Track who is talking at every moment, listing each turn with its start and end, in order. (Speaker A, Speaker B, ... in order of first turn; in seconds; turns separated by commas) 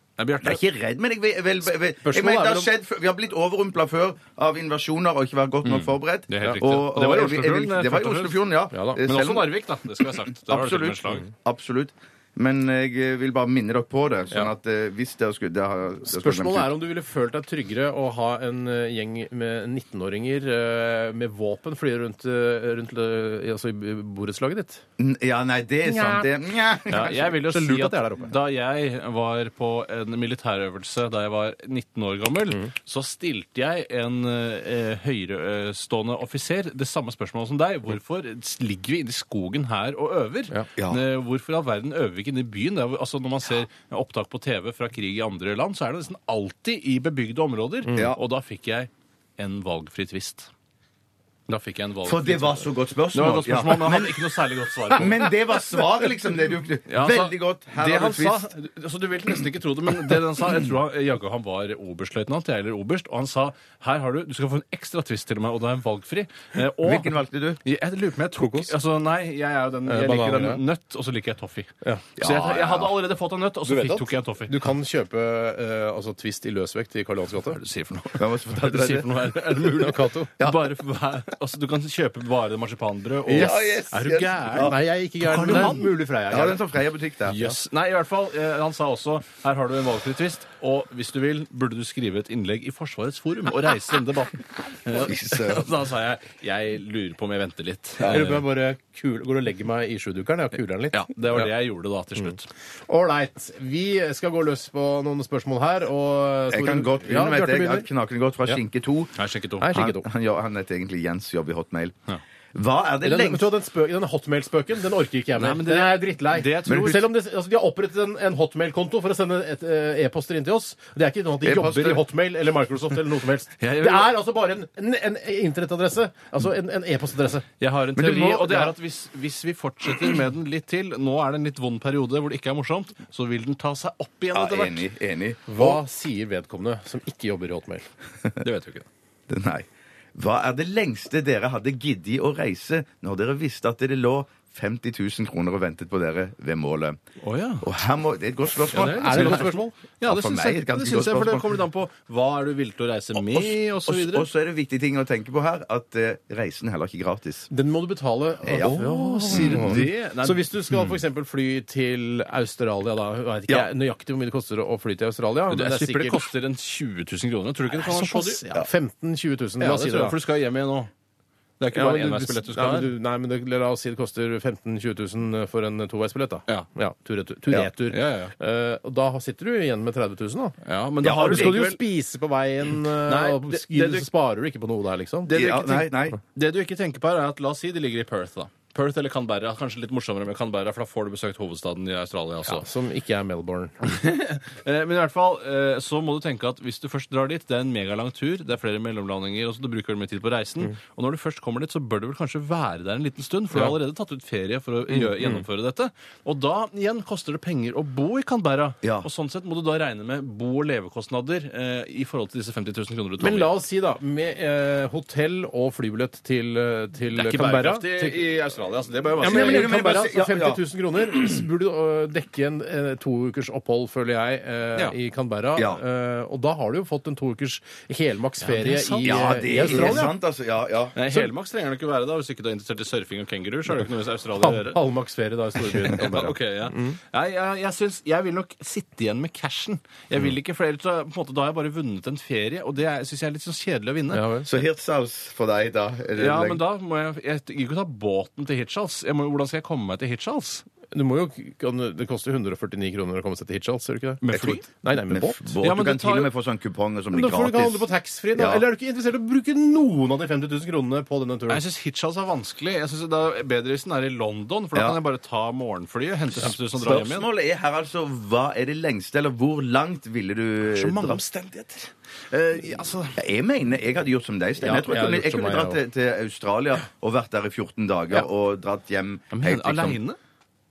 Speaker A: 0.2-0.6, Speaker B: 0.4-9.5, Speaker C: 2.0-2.7, Speaker A: 5.6-8.4, Speaker C: 8.7-9.0, Speaker A: 9.0-11.3, Speaker B: 10.1-16.7, Speaker C: 16.1-24.8, Speaker B: 25.0-27.3, Speaker C: 25.8-26.3, Speaker A: 26.9-50.5, Speaker C: 26.9-28.4, Speaker B: 40.8-41.0, Speaker A: 51.5-55.3, Speaker B: 52.0-54.3, Speaker B: 54.9-58.5, Speaker A: 56.9-74.5, Speaker B: 66.8-67.6, Speaker C: 68.4-68.7, Speaker C: 69.9-70.6, Speaker B: 72.2-72.9, Speaker C: 73.7-77.6, Speaker A: 77.5-83.8, Speaker B: 78.1-79.7, Speaker C: 79.7-80.3, Speaker B: 80.4-80.6, Speaker B: 83.2-84.8, Speaker C: 83.3-86.6, Speaker A: 85.2-85.9, Speaker B: 85.5-85.7, Speaker B: 86.3-87.4, Speaker A: 87.3-98.4, Speaker B: 94.9-95.7, Speaker B: 98.0-98.2, Speaker C: 98.1-101.5, Speaker A: 100.9-102.5, Speaker C: 102.9-107.9, Speaker B: 106.5-109.2, Speaker A: 109.2-109.8, Speaker C: 109.6-110.0, Speaker B: 109.7-112.0, Speaker B: 112.5-113.5, Speaker C: 113.0-127.5, Speaker A: 115.3-117.1, Speaker B: 121.4-122.0, Speaker A: 123.6-124.1, Speaker A: 127.6-134.9, Speaker B: 128.0-128.7, Speaker B: 134.3-135.8, Speaker C: 135.5-137.9, Speaker A: 138.4-138.8, Speaker B: 139.3-147.0, Speaker A: 147.2-147.7, Speaker B: 147.6-151.6, Speaker A: 148.7-154.3, Speaker C: 148.7-149.7, Speaker B: 153.2-157.5, Speaker C: 157.5-166.2, Speaker B: 158.4-159.9, Speaker A: 158.6-161.0, Speaker A: 165.5-168.4, Speaker C: 167.7-170.2, Speaker A: 169.6-170.9, Speaker A: 171.6-172.9, Speaker C: 171.7-180.5, Speaker A: 177.9-178.3, Speaker A: 180.6-181.8, Speaker B: 181.0-181.6, Speaker C: 181.1-185.3, Speaker A: 182.9-184.1, Speaker A: 185.3-192.6, Speaker B: 185.3-186.2, Speaker C: 192.4-194.0, Speaker A: 193.8-213.5, Speaker C: 204.9-205.4, Speaker B: 208.8-209.1, Speaker C: 213.2-218.2, Speaker A: 217.1-219.7, Speaker C: 219.2-230.1, Speaker B: 219.2-221.4, Speaker B: 225.6-225.8, Speaker A: 228.4-230.1, Speaker B: 229.0-230.9, Speaker A: 230.9-234.8, Speaker C: 234.4-237.0, Speaker A: 235.6-244.4, Speaker C: 244.1-244.5, Speaker B: 244.4-246.6, Speaker A: 246.2-250.6, Speaker C: 250.9-255.5, Speaker A: 254.2-254.6, Speaker B: 254.3-258.6, Speaker A: 255.6-256.3, Speaker C: 257.1-261.6, Speaker A: 261.5-267.3, Speaker B: 266.4-271.2, Speaker A: 270.7-273.2, Speaker B: 273.1-280.0, Speaker C: 274.6-275.8, Speaker A: 279.3-280.2